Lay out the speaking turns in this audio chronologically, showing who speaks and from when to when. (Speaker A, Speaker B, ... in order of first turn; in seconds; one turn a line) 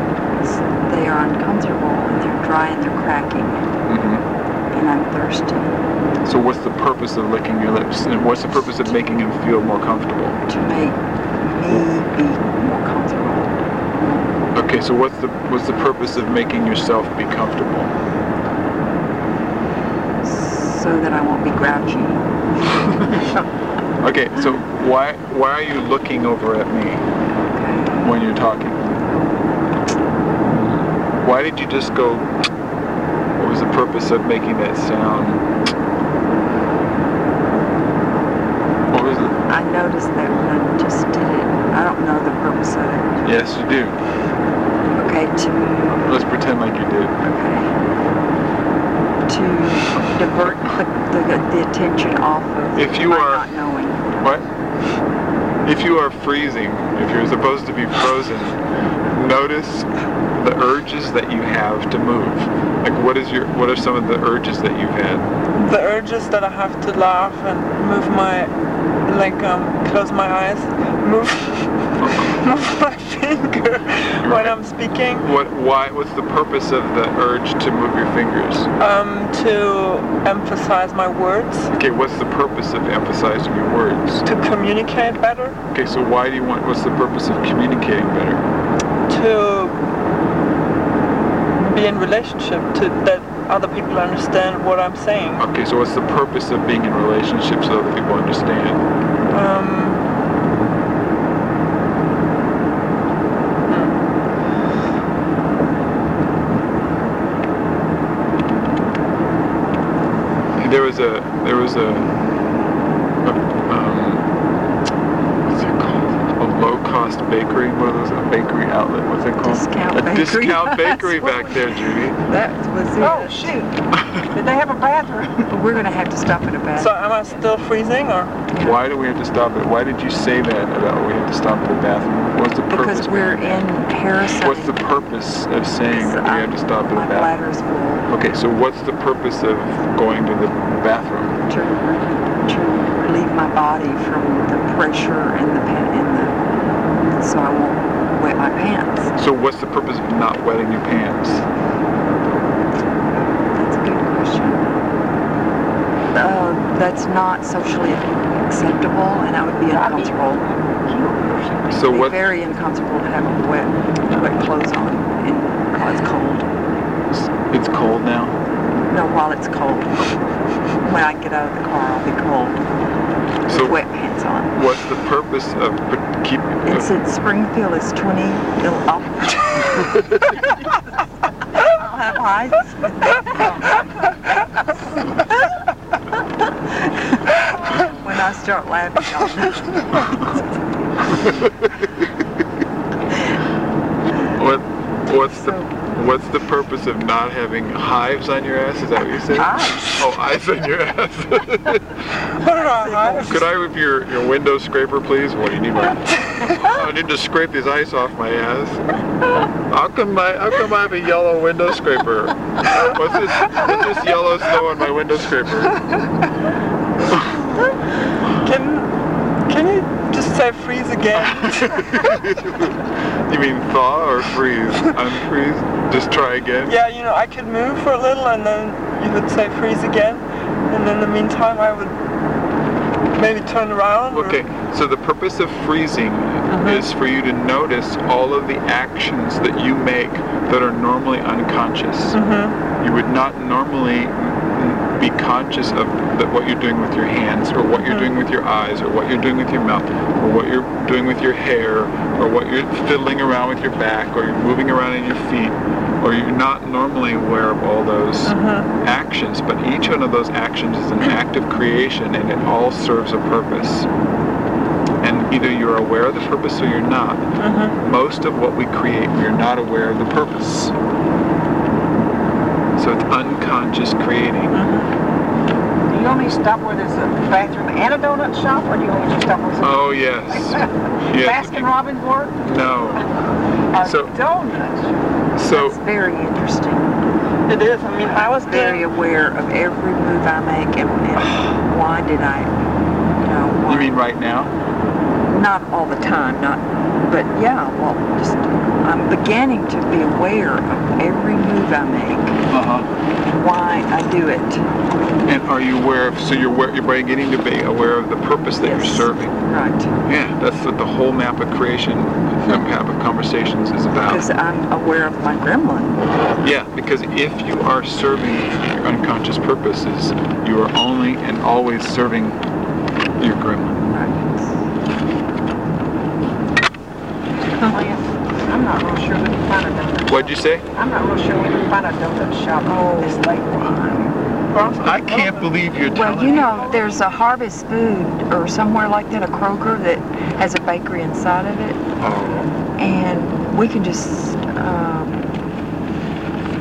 Speaker A: 0.4-3.7
Speaker B: 3.9-4.2
Speaker A: 4.7-5.8
Speaker B: 6.2-10.4
Speaker A: 10.5-14.2
Speaker B: 14.5-17.9
Speaker A: 20.2-22.2
Speaker B: 22.8-23.3
Speaker B: 24.0-27.1
Speaker A: 27.5-28.0
Speaker B: 28.0-28.9
Speaker B: 30.5-32.4
Speaker B: 33.4-35.5
Speaker B: 38.9-39.4
Speaker A: 39.5-43.3
Speaker B: 43.2-44.0
Speaker A: 44.9-46.1
Speaker B: 46.0-47.2
Speaker A: 47.2-47.7
Speaker A: 49.3-54.3
Speaker B: 52.8-53.5
Speaker B: 55.6-65.3
Speaker C: 65.6-68.5
Speaker C: 69.0-75.3
Speaker B: 72.0-72.4
Speaker B: 74.2-74.6
Speaker B: 75.2-78.7
Speaker C: 78.8-81.7
Speaker B: 81.7-84.3
Speaker C: 84.3-85.6
Speaker B: 85.7-88.4
Speaker C: 89.1-89.8
Speaker C: 91.6-95.4
Speaker B: 95.4-98.8
Speaker C: 99.3-100.0
Speaker C: 103.7-104.0
Speaker B: 110.6-112.1
Speaker B: 113.2-114.3
Speaker B: 115.4-122.2
Speaker A: 119.4-123.5
Speaker D: 123.0-125.5
Speaker A: 125.5-127.0
Speaker C: 126.8-128.3
Speaker A: 128.5-128.8
Speaker B: 128.6-133.7
Speaker A: 132.7-134.8
Speaker B: 134.4-137.3
Speaker A: 135.9-138.1
Speaker B: 138.1-141.4
Speaker A: 141.5-146.4
Speaker A: 147.1-149.2
Speaker B: 149.2-151.5
Speaker A: 153.1-154.7
Speaker A: 156.1-160.4
Speaker D: 159.7-161.8
Speaker B: 161.7-162.2
Speaker A: 161.8-166.5
Speaker B: 167.1-168.4
Speaker A: 168.9-170.2
Speaker A: 170.8-172.6
Speaker A: 173.4-174.5
Speaker B: 173.5-173.8
Speaker B: 174.5-176.9
Speaker A: 176.7-180.7
Speaker A: 181.6-183.8
Speaker A: 187.4-190.5
Speaker B: 191.2-191.8
Speaker B: 194.3-202.1
Speaker A: 195.3-195.7
Speaker A: 199.3-200.0
Speaker C: 202.3-203.5
Speaker A: 202.8-203.3
Speaker B: 203.2-209.0
Speaker B: 209.6-216.1
Speaker B: 217.1-217.5
Speaker C: 218.3-218.9
Speaker C: 219.5-222.1
Speaker B: 221.2-226.8
Speaker C: 226.7-231.9
Speaker C: 233.2-234.4
Speaker B: 234.1-242.2
Speaker C: 236.5-236.8
Speaker C: 242.1-242.6
Speaker B: 242.8-263.9
Speaker C: 258.3-258.7
Speaker B: 265.0-267.3
Speaker C: 267.4-267.8
Speaker B: 267.8-270.8
Speaker B: 272.8-274.6
Speaker C: 274.5-274.9
Speaker D: 275.9-283.0
Speaker B: 279.6-281.7
Speaker B: 282.4-283.1
Speaker D: 283.7-285.0
Speaker B: 283.8-284.1
Speaker B: 285.4-285.8
Speaker A: 285.5-287.0
Speaker C: 287.5-288.9
Speaker A: 288.4-292.5
Speaker C: 291.2-291.6
Speaker A: 293.2-294.0
Speaker B: 293.7-294.5
Speaker A: 295.2-302.4
Speaker B: 302.5-302.9
Speaker A: 303.2-304.6
Speaker B: 305.2-309.4
Speaker A: 308.6-309.9
Speaker B: 310.1-314.3
Speaker A: 314.0-316.1
Speaker B: 316.4-322.4
Speaker B: 323.2-323.9
Speaker A: 323.9-324.6
Speaker D: 327.6-333.7
Speaker B: 330.1-330.7
Speaker A: 332.6-334.1
Speaker C: 334.5-335.4
Speaker B: 334.8-336.7
Speaker A: 335.9-341.9
Speaker D: 336.1-337.0
Speaker B: 342.0-342.5
Speaker A: 342.8-345.4